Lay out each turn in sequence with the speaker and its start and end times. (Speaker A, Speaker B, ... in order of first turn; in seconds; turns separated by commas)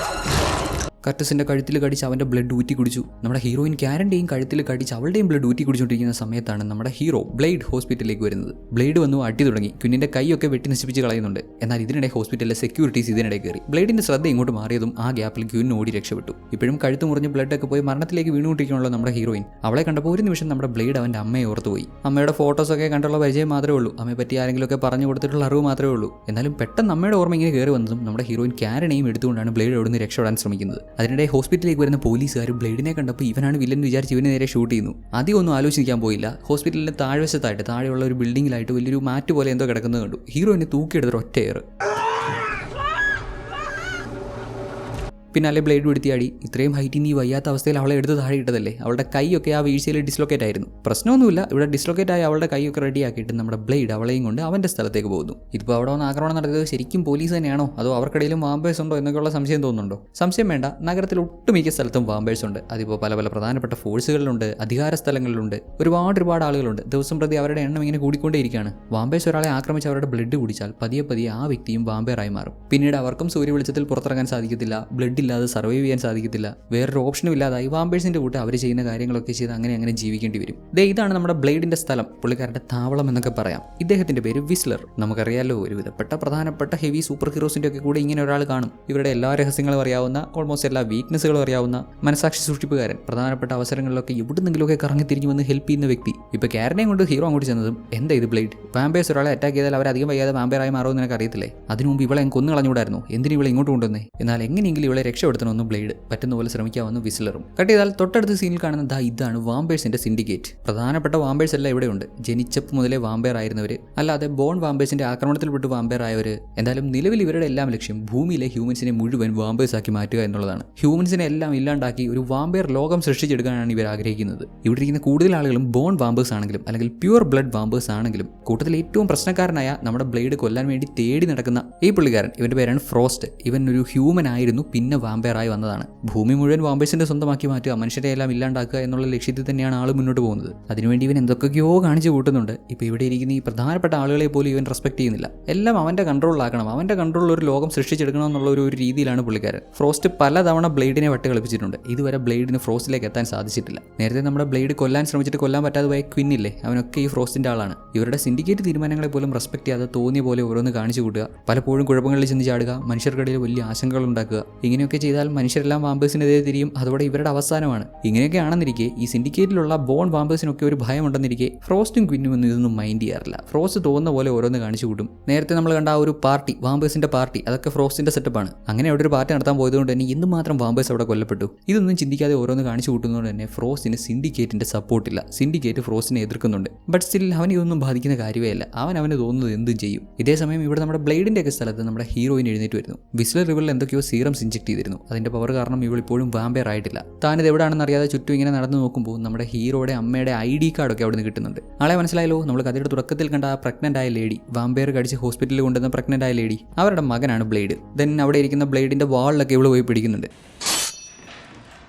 Speaker A: 1.0-41.6, Speaker A: 45.3-210.3